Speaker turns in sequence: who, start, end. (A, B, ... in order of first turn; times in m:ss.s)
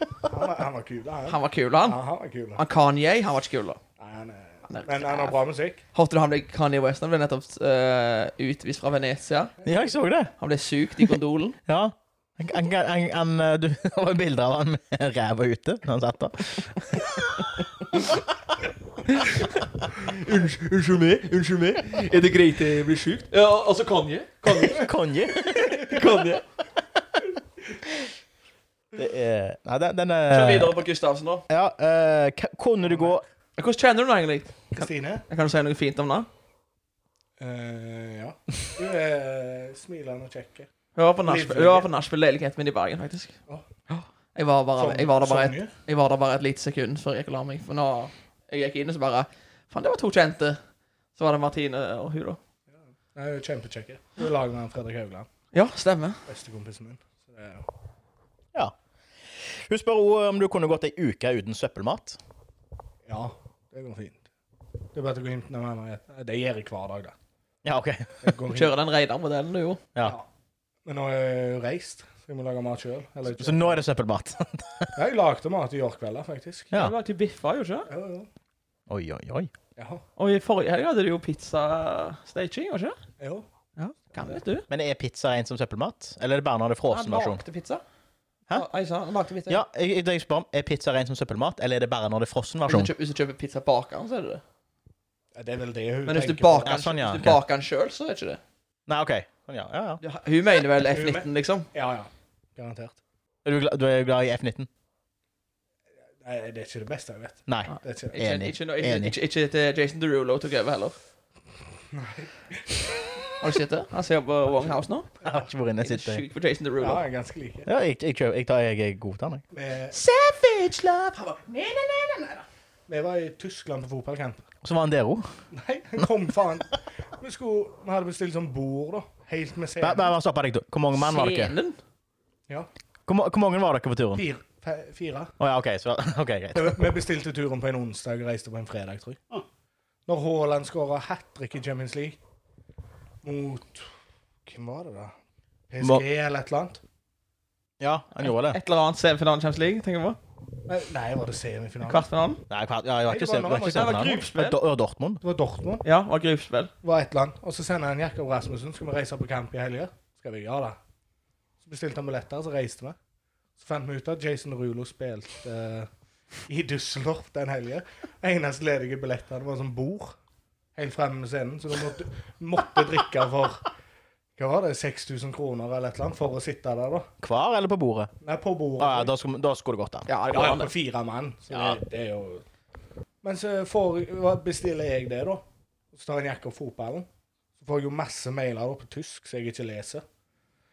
0:00.3-0:02.6 A
0:01.3-0:02.0 B
0:02.6-0:03.8 B
0:04.0-0:05.8 A
0:04.7-0:05.4 B
0:05.9-0:09.5 B
0:09.6-0:10.3 C
0:10.4-0:11.6 B
0:11.7-0:17.5 C
0:19.1-0:24.9 B
0:24.5-0:26.3 C
0:25.7-0:26.4 B
0:28.9-0:30.8 C
0:30.3-0:31.4 B
0:31.5-0:33.2 C
0:32.8-0:33.2 A
0:33.6-0:36.3 B
0:34.7-0:35.2 A
0:37.4-0:40.7 A
0:41.0-0:43.4 B
0:41.2-0:41.9 A
0:43.9-0:50.6 B
0:44.8-0:45.7 A
0:51.1-0:52.4 B
0:53.1-0:55.3 A
0:55.5-0:56.2 B
0:56.2-0:57.6 A
0:59.4-1:02.2 C
1:03.0-1:04.2 A
1:04.9-1:07.1 A
1:07.6-1:08.3 C
1:08.2-1:08.7 A
1:08.5-1:09.8 B
1:10.0-1:10.3 A
1:10.8-1:13.8 A
1:13.3-1:14.9 C
1:15.0-1:16.7 A
1:16.7-1:17.9 B
1:17.9-1:18.3 A
1:18.9-1:19.5 C
1:19.8-1:20.0 A
1:20.2-1:23.0 B
1:23.2-1:23.4 A
1:23.8-1:24.7 B
1:24.7-1:27.4 C
1:26.9-1:27.8 B
1:28.5-1:29.6 B
1:29.5-1:32.9 C
1:32.7-1:34.4 B
1:35.3-1:36.8 A
1:36.0-1:38.4 B
1:36.6-1:37.4 C
1:38.9-1:40.0 C
1:40.0-1:41.7 B
1:40.9-1:43.0 A
1:43.4-1:44.7 C
1:46.2-1:48.2 A
1:47.5-1:49.1 C
1:47.7-1:51.0 B
1:51.9-1:52.9 A
1:53.4-1:55.1 B
1:55.2-1:56.2 C
1:55.8-1:57.0 B
1:56.8-1:57.7 A
1:57.7-1:59.4 C
1:59.5-2:00.0 A
1:59.9-2:02.4 B
2:02.9-2:04.4 A
2:04.6-2:05.3 C
2:05.5-2:10.1 A
2:09.8-2:11.5 C
2:10.9-2:11.8 B
2:13.0-2:14.2 C
2:14.1-2:15.3 A
2:15.4-2:16.8 C
2:16.5-2:19.4 A
2:20.1-2:22.2 A
2:23.2-2:23.9 A
2:24.4-2:25.1 A
2:25.7-2:26.8 A
2:27.8-2:28.6 C
2:28.2-2:30.2 B
2:30.7-2:32.0 A
2:31.8-2:32.4 B
2:32.5-2:35.2 C
2:33.1-2:34.1 A
2:33.7-2:34.6 B
2:35.2-2:35.8 A
2:35.8-2:36.7 B
2:36.8-2:40.8 A
2:41.6-2:43.0 A
2:43.6-2:45.9 A
2:46.4-2:50.2 A
2:50.7-2:53.7 A
2:54.4-2:57.1 A
2:57.2-2:58.1 C
2:58.2-2:59.1 A
2:58.8-3:00.1 C
3:00.1-3:00.7 B
3:00.3-3:02.4 A
3:01.5-3:01.8 C
3:03.2-3:07.1 A
3:07.6-3:10.0 A